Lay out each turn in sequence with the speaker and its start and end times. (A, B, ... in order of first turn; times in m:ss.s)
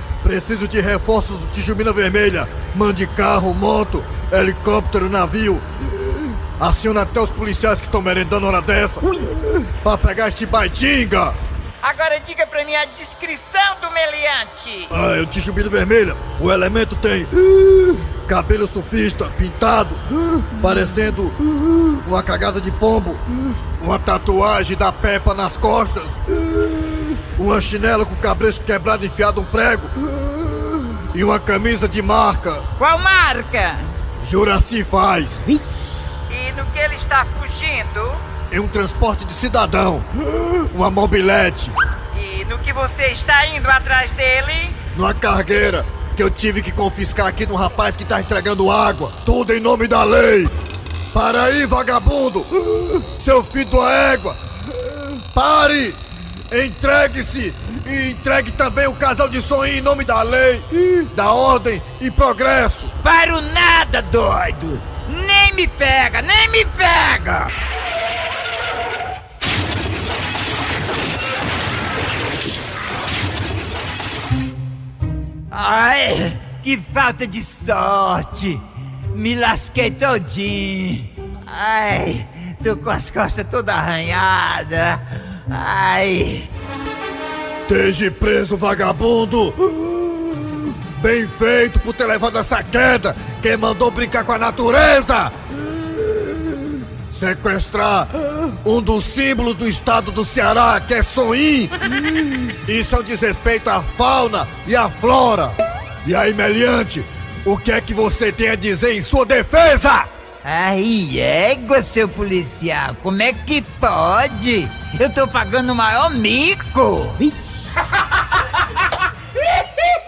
0:00.2-0:09.0 A
0:09.8-0:11.4 A
0:11.8-0:14.9 B
0:14.9-0:32.6 A
0:32.8-0:33.9 B
0:34.2-0:35.4 A
0:36.3-0:38.2 B
0:38.5-0:41.7 A
0:42.1-0:44.8 B
0:44.9-0:50.5 A
0:51.1-0:56.0 A
0:56.5-1:02.9 A
1:03.0-1:07.5 B
1:15.5-1:18.6 B
1:19.1-1:26.5 B
1:27.7-1:36.6 A
1:37.1-1:41.8 A
1:42.6-1:50.1 A
1:50.4-1:57.2 B